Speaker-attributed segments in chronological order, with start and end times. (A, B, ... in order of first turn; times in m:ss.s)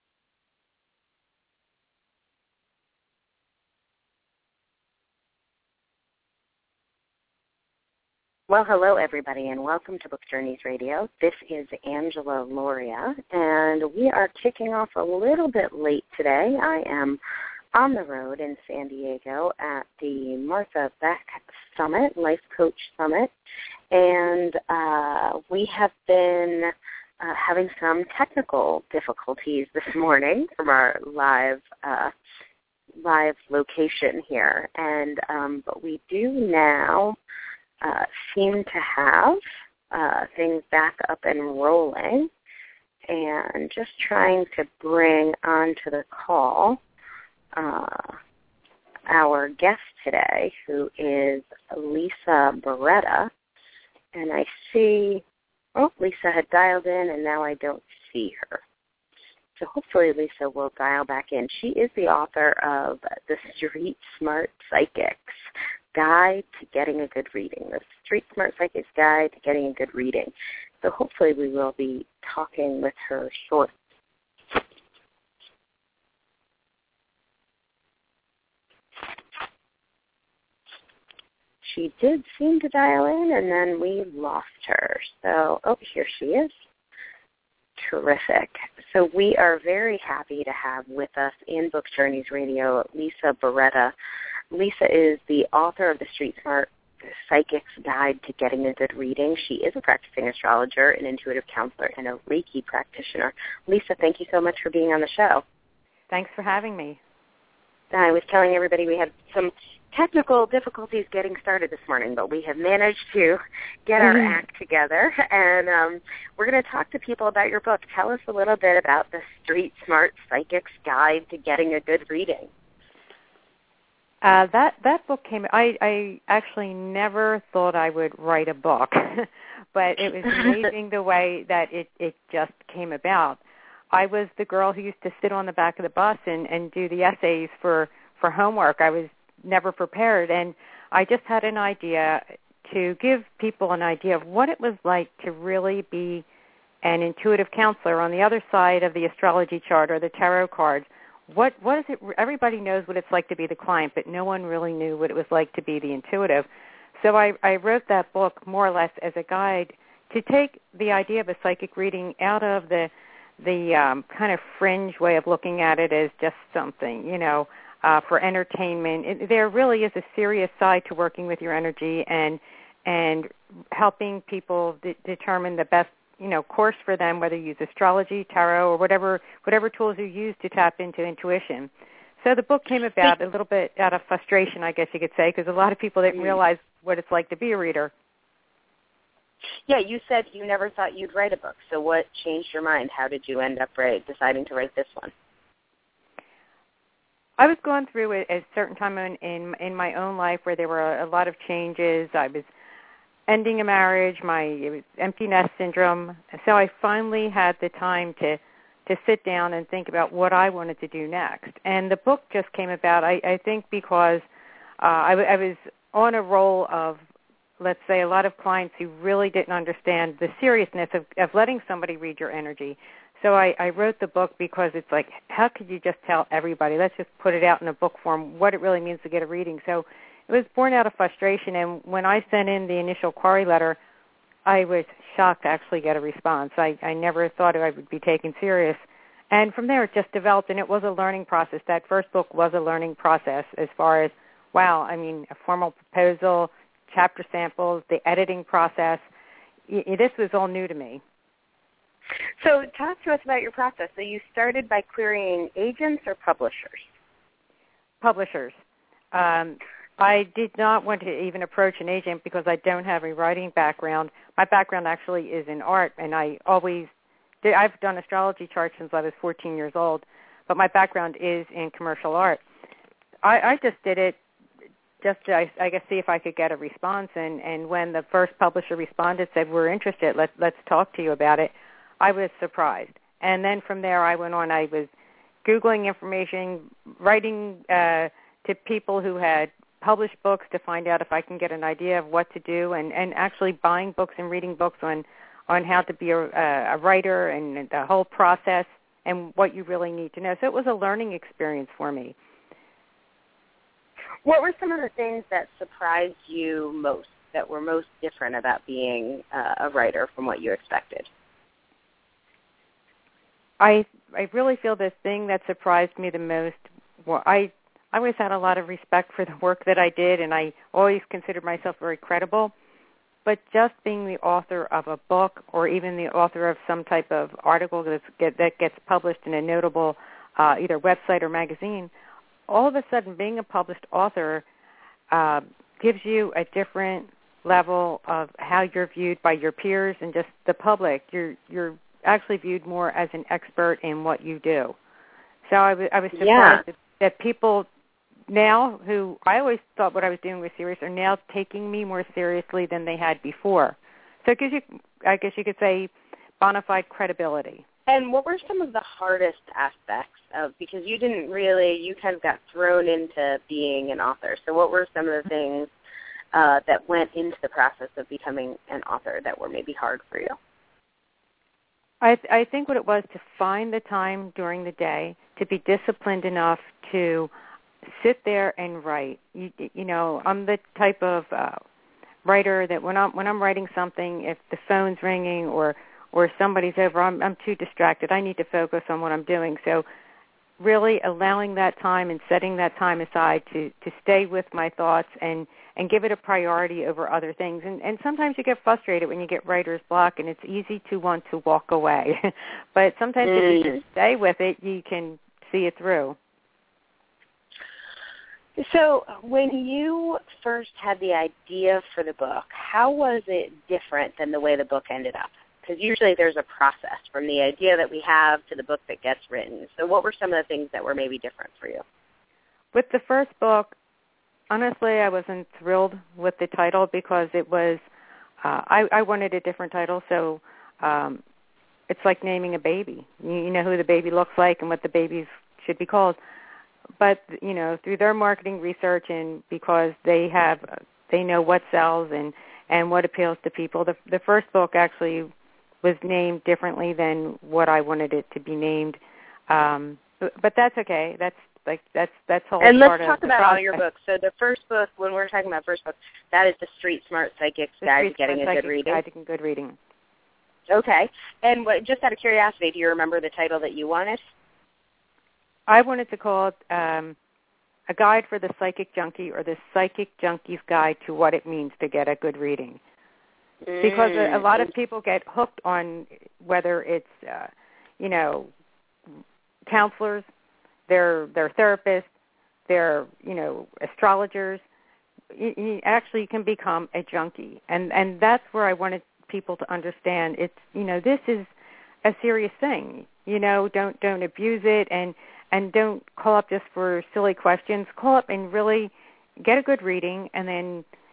0:08.5-0:17.2 A
0:17.7-0:23.3 A
0:23.9-0:32.1 A
0:33.0-0:37.2 A
0:37.8-0:39.4 A
0:39.9-0:42.3 A
0:43.1-0:46.8 A
0:47.5-0:48.2 A
0:49.1-0:53.3 A
0:54.1-0:55.2 A
0:55.8-0:58.6 A
0:59.6-1:13.7 A
1:21.6-1:26.5 A
1:27.8-1:33.9 A
1:34.5-1:45.4 A
1:46.1-1:47.0 B
1:47.9-2:02.5 A
1:54.0-1:54.4 B
2:04.2-2:13.4 B
2:13.9-2:26.2 B
2:26.8-2:36.4 B
2:37.0-3:07.9 B
3:09.7-3:15.1 A
3:17.4-3:22.4 B
3:23.3-3:34.2 B
3:34.8-3:37.0 B
3:37.6-3:53.8 B
3:54.4-4:09.0 B
4:09.7-4:11.0 B
4:12.4-4:16.9 A
4:18.0-4:18.6 B
4:19.1-4:26.9 B
4:27.4-4:32.4 B
4:33.2-4:34.2 B
4:35.0-4:44.9 B
4:45.4-5:02.1 B
5:04.2-5:11.1 A
5:13.6-5:22.5 B
5:23.2-5:31.9 B
5:32.5-5:34.4 B
5:35.1-5:44.8 B
5:45.4-5:47.7 B
5:46.1-5:46.6 A
5:48.3-5:57.6 B
5:57.9-6:05.7 A
6:06.3-6:10.4 A
6:12.0-6:17.3 B
6:17.8-6:21.6 B
6:22.2-6:29.8 B
6:30.6-6:46.2 B
6:43.2-6:43.8 A
6:48.6-7:01.8 A
7:02.7-7:03.7 B
7:04.5-7:07.8 B
7:08.4-7:11.2 B
7:11.9-7:16.2 B
7:17.0-7:25.3 B
7:25.8-7:33.8 B
7:32.6-7:39.0 A
7:37.8-7:39.8 B
7:40.7-7:44.2 A
7:45.7-7:47.2 B
7:47.9-7:52.8 B
7:53.6-7:54.6 A
7:53.8-7:58.5 B
7:59.7-8:00.2 B
8:00.9-8:02.1 B
8:02.7-8:04.6 B
8:05.3-8:11.5 B
8:12.0-8:20.8 B